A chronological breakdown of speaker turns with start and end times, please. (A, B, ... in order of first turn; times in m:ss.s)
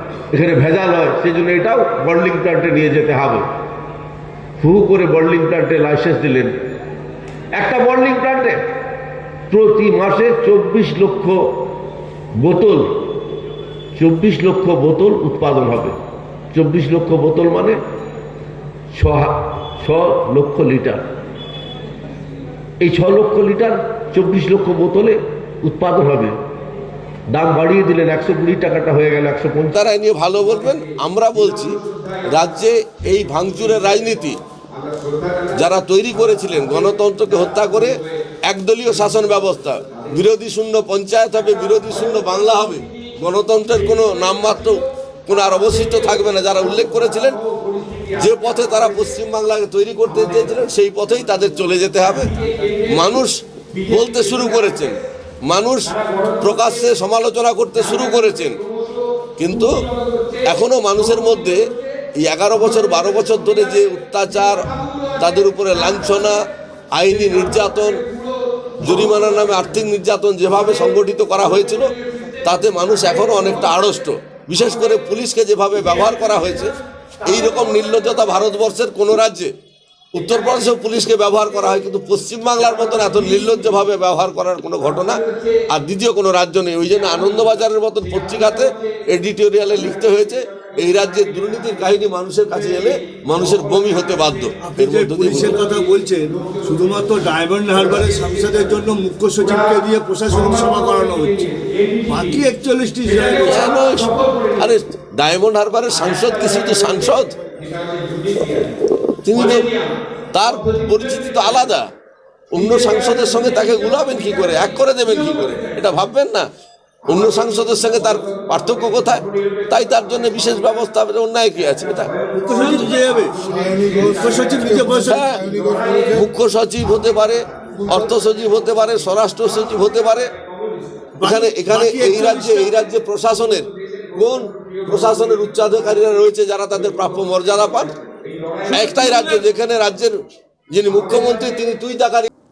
0:00.3-0:03.4 A
0:04.6-0:06.5 A
0:07.6-0:08.6 A
0:09.5-0:11.4 A
0:12.4-0:12.9 A
0:14.0-0:16.0 A
0:16.5-0:17.8 A
0:18.9-0:21.0 A
0:22.8-0:26.4 A
0:27.3-0:30.0 A
0:30.0-0:31.8 B
0:32.3-0:34.4 B
0:35.5-0:47.4 B
0:48.1-0:52.4 B
0:52.9-0:58.6 B
0:59.4-0:59.7 B
1:00.4-1:01.6 B
1:02.2-1:06.4 B
1:07.0-1:08.1 B
1:08.8-1:11.9 B
1:12.4-1:16.7 B
1:17.2-1:19.5 B
1:20.1-1:31.4 B
1:29.2-1:30.0 A
1:30.7-1:33.3 A
1:33.2-1:35.6 B
1:34.6-1:43.6 C
1:43.5-1:47.4 B
1:49.2-1:49.7 B
1:50.3-1:51.8 B
1:52.5-1:56.5 B
1:57.1-2:02.1 B
2:02.2-2:05.9 C
2:05.1-2:10.3 B
2:11.2-2:12.8 C
2:11.2-2:17.9 B
2:18.7-2:20.2 B
2:20.7-2:22.3 B